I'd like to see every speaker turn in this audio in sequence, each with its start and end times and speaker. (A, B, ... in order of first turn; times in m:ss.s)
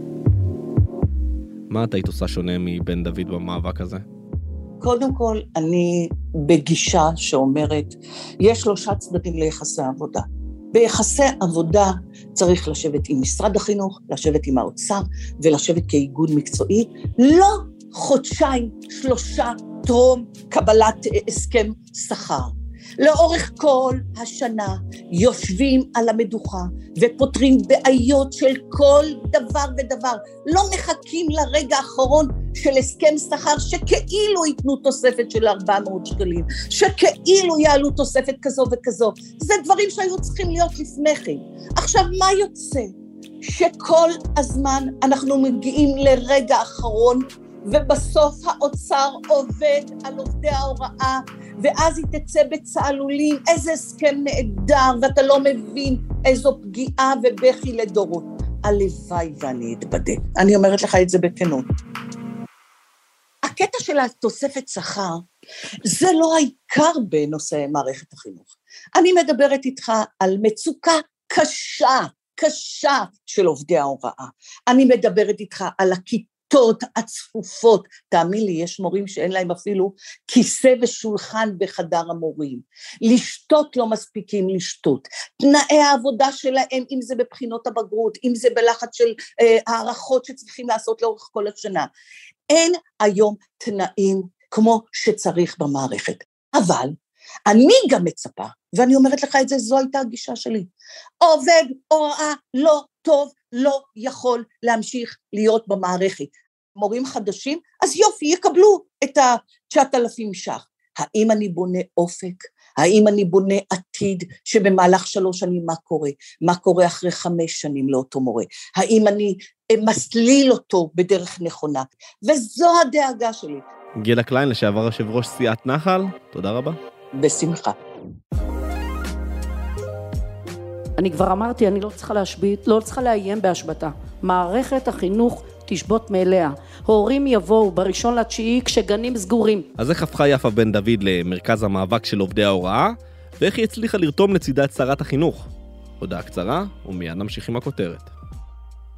0:01.7-0:04.0 A
0:04.8-0:42.9 B
0:43.4-1:01.7 B
1:03.5-1:05.2 B
1:05.9-1:31.9 B
1:32.5-1:36.9 B
1:37.5-1:40.7 B
1:41.2-2:03.6 B
2:04.0-2:06.8 A
2:07.2-2:07.7 B
2:11.0-2:19.7 C
2:19.8-2:25.5 A
2:26.0-2:28.1 A